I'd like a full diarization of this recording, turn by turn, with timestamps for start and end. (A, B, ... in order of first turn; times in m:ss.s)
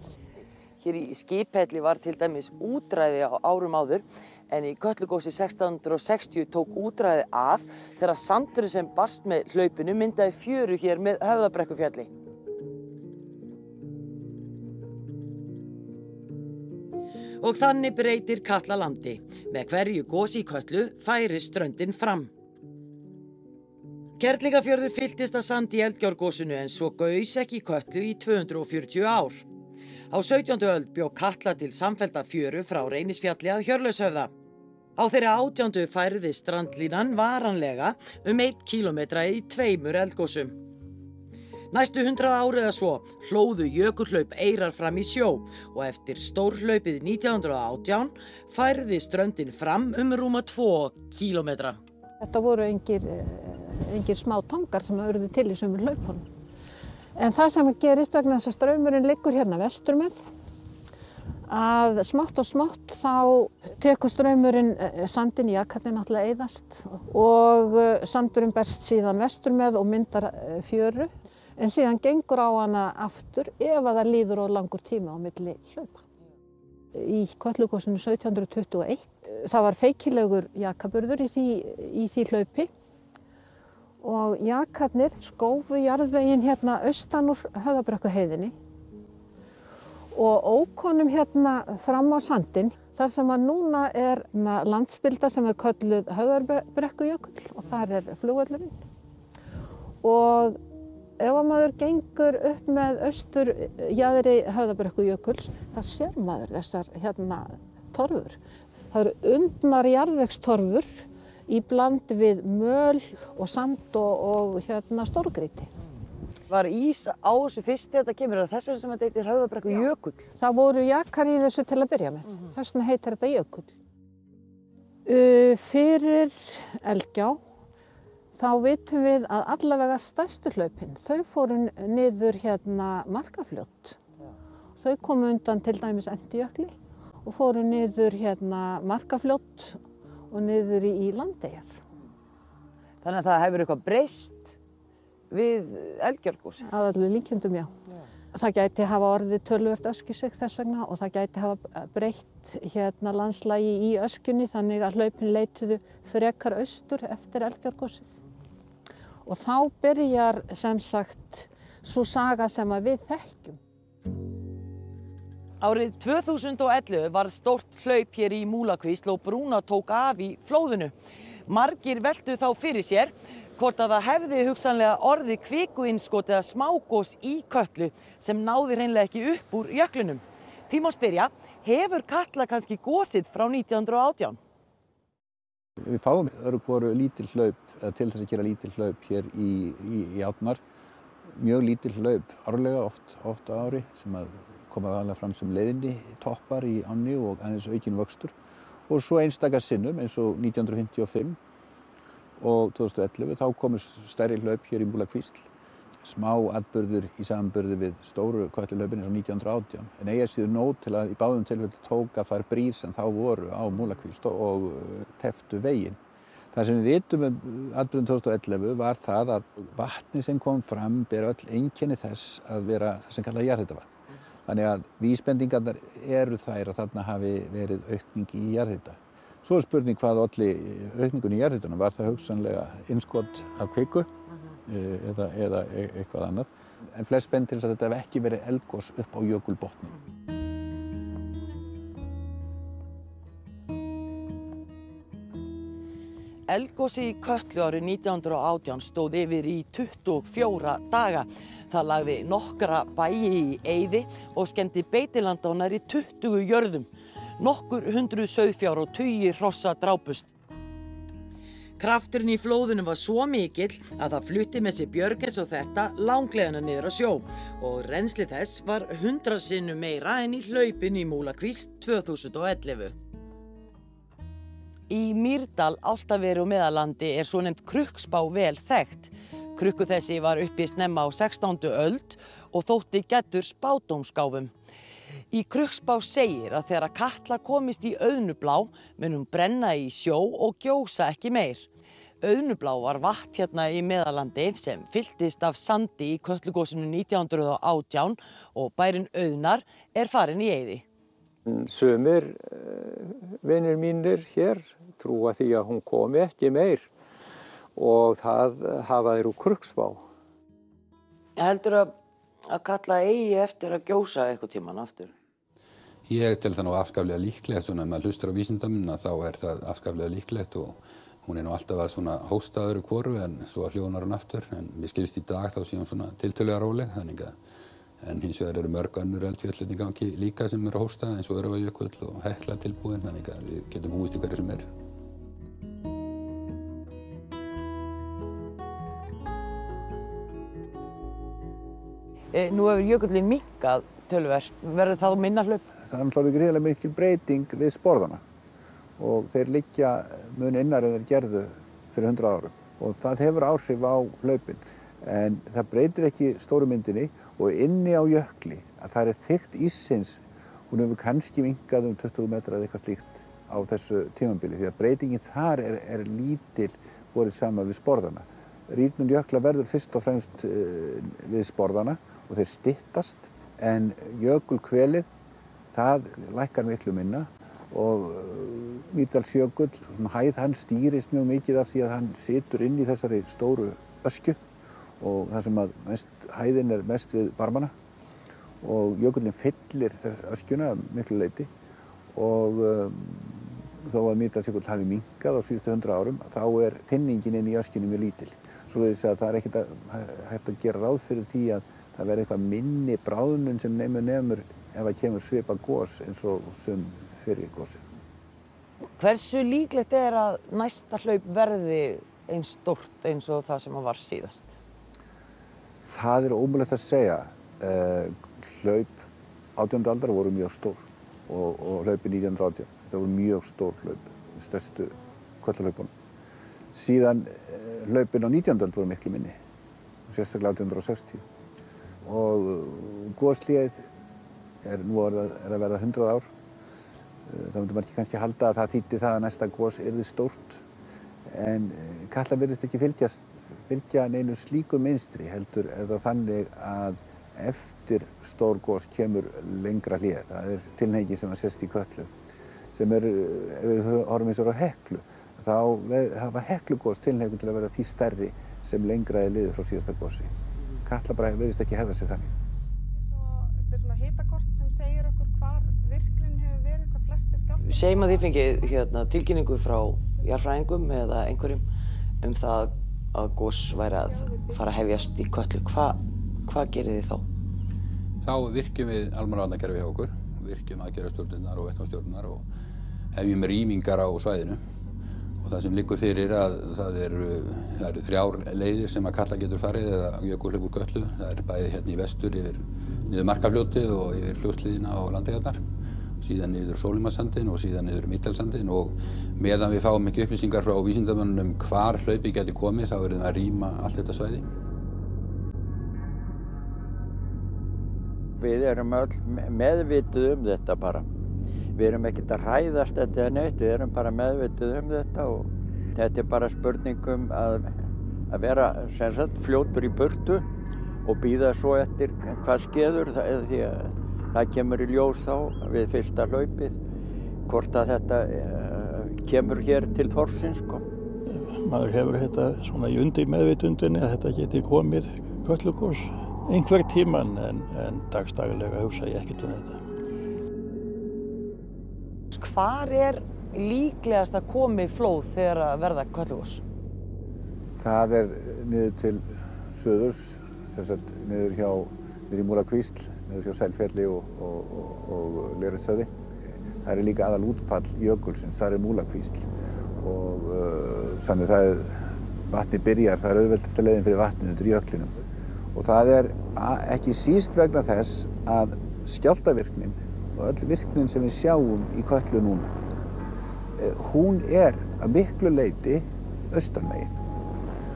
0:00.8-0:12.1 A
0:17.4-0:22.3 A
0:24.2-0:29.4 A
0:30.1-0:34.3 A
0:35.0-0:40.6 A
0:41.7-0:51.8 A
0:52.2-0:56.2 B
0:57.2-1:00.2 B
1:01.5-1:16.0 B
1:16.9-1:22.7 B
1:24.0-1:28.5 B
1:30.1-1:38.7 B
1:40.0-1:40.6 B
1:41.2-1:48.4 B
1:48.9-1:55.7 B
1:56.5-2:00.2 A
2:00.4-2:03.7 B
2:05.0-2:07.4 B
2:08.4-2:14.0 B
2:14.8-2:21.7 B
2:23.0-2:24.5 A
2:25.3-2:26.6 A
2:26.6-2:27.7 B
2:28.3-2:38.2 B
2:39.2-2:43.6 B
2:45.6-2:50.9 A
2:51.5-3:04.4 A
3:05.8-3:10.6 C
3:11.3-3:18.3 C
3:18.9-3:21.4 C
3:22.4-3:25.5 C
3:26.0-3:36.0 C
3:36.5-3:43.9 C
3:44.4-3:54.1 C
3:54.7-3:59.9 C
4:06.5-4:16.9 A
4:17.4-4:20.3 A
4:21.8-4:32.9 A
4:34.9-4:44.5 A
4:45.3-4:51.7 A
4:52.2-5:00.8 A
5:01.4-5:06.9 D
5:07.8-5:10.0 D
5:11.4-5:11.9 A
5:12.5-5:15.1 A
5:16.1-5:27.3 E
5:28.0-5:34.6 E
5:42.3-5:45.6 A
5:45.8-5:48.2 C
5:49.0-6:15.1 C
6:15.7-6:24.4 C
6:25.0-6:27.7 C
6:28.6-6:31.5 C
6:32.1-6:47.8 C
6:49.0-6:54.5 A
6:55.8-7:05.9 C
7:06.7-7:09.3 C
7:10.1-7:11.2 C
7:12.0-7:13.8 C
7:14.6-7:16.3 C
7:17.2-7:20.6 C
7:21.2-7:32.1 C
7:32.7-7:40.3 C
7:40.8-7:42.3 C
7:42.9-7:48.7 F
7:47.6-7:51.6 A
7:52.2-7:57.2 A
7:54.2-7:54.5 F
7:58.2-8:02.4 E
8:03.1-8:04.6 E
8:05.4-8:15.6 E
8:16.2-8:24.4 E
8:28.4-8:31.0 G
8:31.8-8:37.8 G
8:38.3-8:40.4 G
8:41.0-8:46.8 G
8:47.4-8:50.8 G
8:51.3-8:59.8 H
9:02.3-9:06.6 A
9:07.8-9:16.1 C
9:16.8-9:32.7 C
9:33.8-9:37.2 C